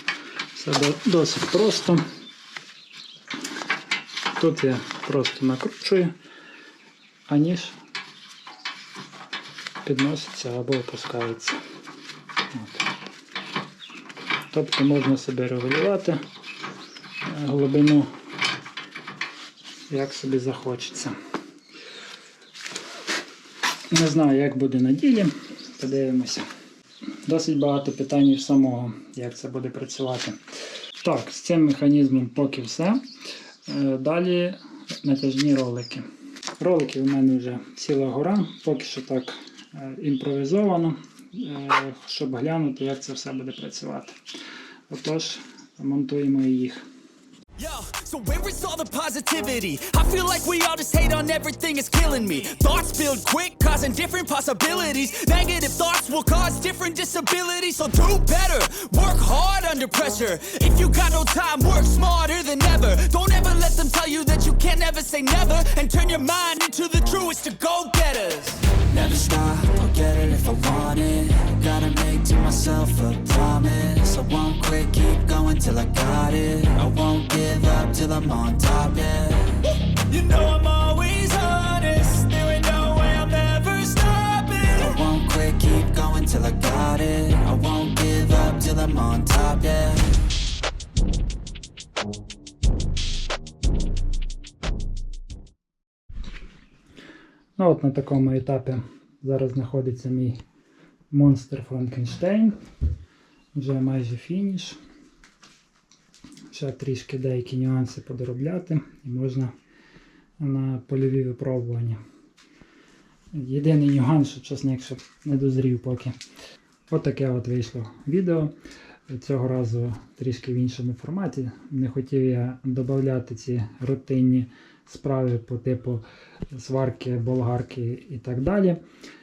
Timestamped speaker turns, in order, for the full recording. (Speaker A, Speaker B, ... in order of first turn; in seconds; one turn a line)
Speaker A: 0.5-2.0
Speaker A: 4.4-6.1
Speaker A: 7.3-7.8
Speaker A: 9.8-11.6
Speaker A: 12.5-12.8
Speaker A: 14.5-16.2
Speaker A: 17.2-18.1
Speaker A: 19.9-21.1
Speaker A: 23.9-26.5
Speaker A: 27.2-30.4
Speaker A: 31.0-33.0
Speaker A: 33.7-36.1
Speaker A: 36.6-44.2
Speaker A: 44.9-46.9
Speaker B: 47.6-68.8
Speaker C: 68.8-79.6
Speaker B: 79.8-85.1
Speaker C: 85.0-90.2
Speaker A: 97.6-100.4
Speaker A: 101.1-102.5
Speaker A: 103.5-104.8
Speaker A: 106.5-109.5
Speaker A: 110.4-112.0
Speaker A: 113.3-116.2
Speaker A: 116.9-118.5
Speaker A: 119.1-128.8